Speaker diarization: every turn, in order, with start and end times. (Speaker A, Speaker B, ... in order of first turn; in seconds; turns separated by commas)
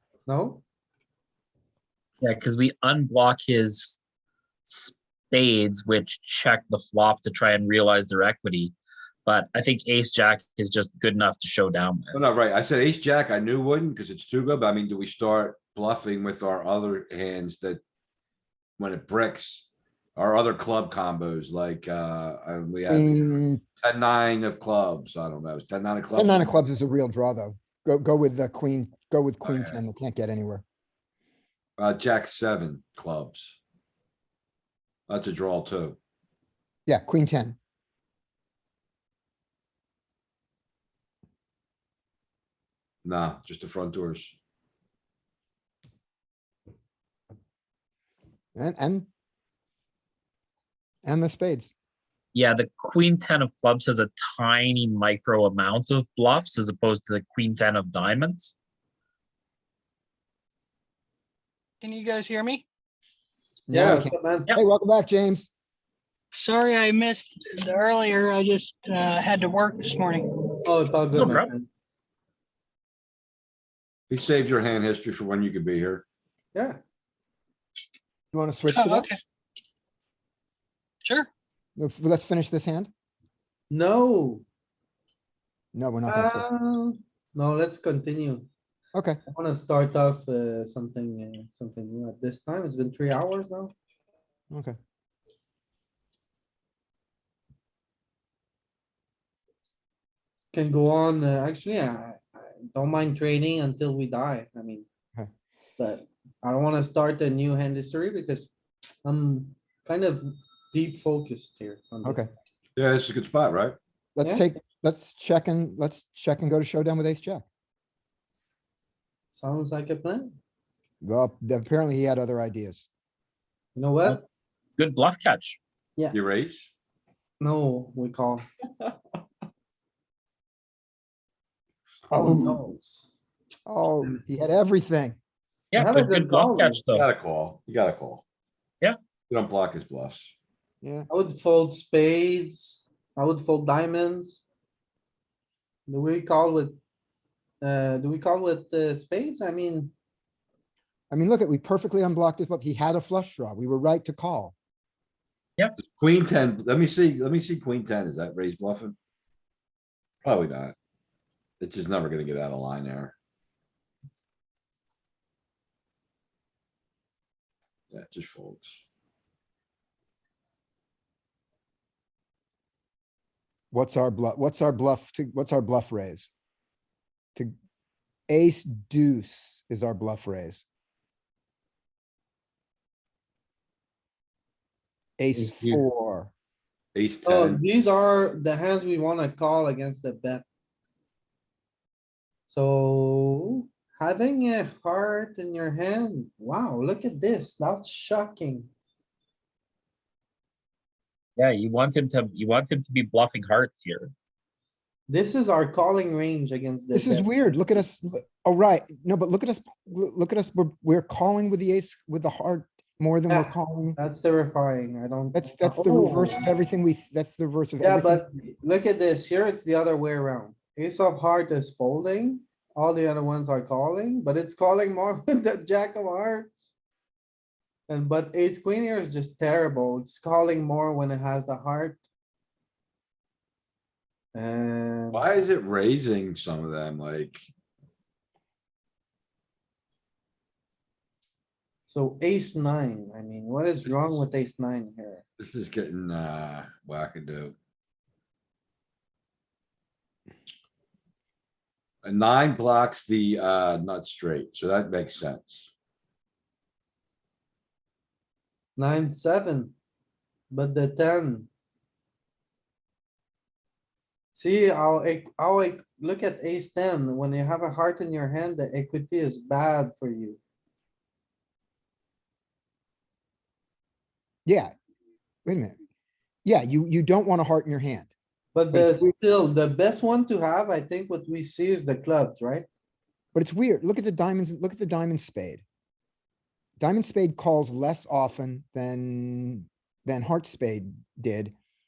Speaker A: 0.3-0.6, Speaker B: 2.2-4.0, Speaker B: 4.7-8.7, Speaker B: 9.3-12.3, Speaker C: 12.1-17.8, Speaker C: 18.8-26.5, Speaker D: 22.9-23.6, Speaker D: 26.1-30.6, Speaker B: 29.4-29.8, Speaker C: 31.8-33.5, Speaker C: 35.1-36.0, Speaker D: 36.9-37.6, Speaker C: 43.0-44.3, Speaker D: 48.5-49.1, Speaker D: 51.0-51.7, Speaker B: 52.3-58.5, Speaker E: 61.8-62.6, Speaker D: 63.7-65.5, Speaker A: 63.7-64.5, Speaker E: 66.3-70.5, Speaker A: 70.6-71.7, Speaker B: 71.1-71.5, Speaker C: 74.1-76.0, Speaker D: 78.3-79.1, Speaker E: 78.7-79.2, Speaker D: 81.8-82.9, Speaker A: 83.7-84.5, Speaker D: 85.7-86.5, Speaker A: 86.1-88.5, Speaker D: 89.0-89.2, Speaker A: 89.3-93.8, Speaker D: 94.5-94.8, Speaker A: 100.5-104.9, Speaker A: 105.8-108.5, Speaker A: 109.0-112.3, Speaker D: 112.0-112.3, Speaker C: 112.8-113.8, Speaker D: 114.2-117.4, Speaker A: 114.2-114.5, Speaker A: 119.3-120.3, Speaker D: 121.0-122.9, Speaker A: 123.8-124.2, Speaker B: 124.8-125.6, Speaker C: 126.1-126.7, Speaker A: 127.4-128.4, Speaker D: 132.1-132.6, Speaker A: 132.1-133.1, Speaker D: 133.7-135.2, Speaker B: 135.7-137.1, Speaker A: 135.7-136.8, Speaker C: 136.9-138.2, Speaker C: 139.3-140.3, Speaker D: 140.8-141.1, Speaker A: 141.1-144.4, Speaker A: 145.9-146.8, Speaker A: 147.6-149.9, Speaker D: 151.1-154.5, Speaker C: 155.8-158.9, Speaker C: 160.2-160.7, Speaker C: 161.6-163.1, Speaker C: 167.9-168.8, Speaker D: 173.7-176.3, Speaker D: 178.3-180.6, Speaker D: 185.2-186.3, Speaker C: 185.3-185.8, Speaker C: 186.9-187.6, Speaker A: 187.2-190.4, Speaker A: 192.5-198.7, Speaker B: 201.4-204.1, Speaker A: 205.1-207.4, Speaker D: 206.9-214.0, Speaker A: 213.3-216.4, Speaker D: 215.3-218.2, Speaker A: 217.8-226.7, Speaker A: 227.9-232.0, Speaker A: 234.3-235.2, Speaker C: 235.1-237.4, Speaker A: 241.9-245.2, Speaker C: 245.4-247.5, Speaker C: 252.0-255.7, Speaker A: 258.8-259.7, Speaker A: 260.5-261.5, Speaker A: 264.3-270.4, Speaker D: 274.5-274.7, Speaker D: 275.4-275.8, Speaker D: 276.4-278.1, Speaker A: 278.6-282.7, Speaker D: 278.7-279.1, Speaker D: 283.3-285.6, Speaker D: 286.8-291.5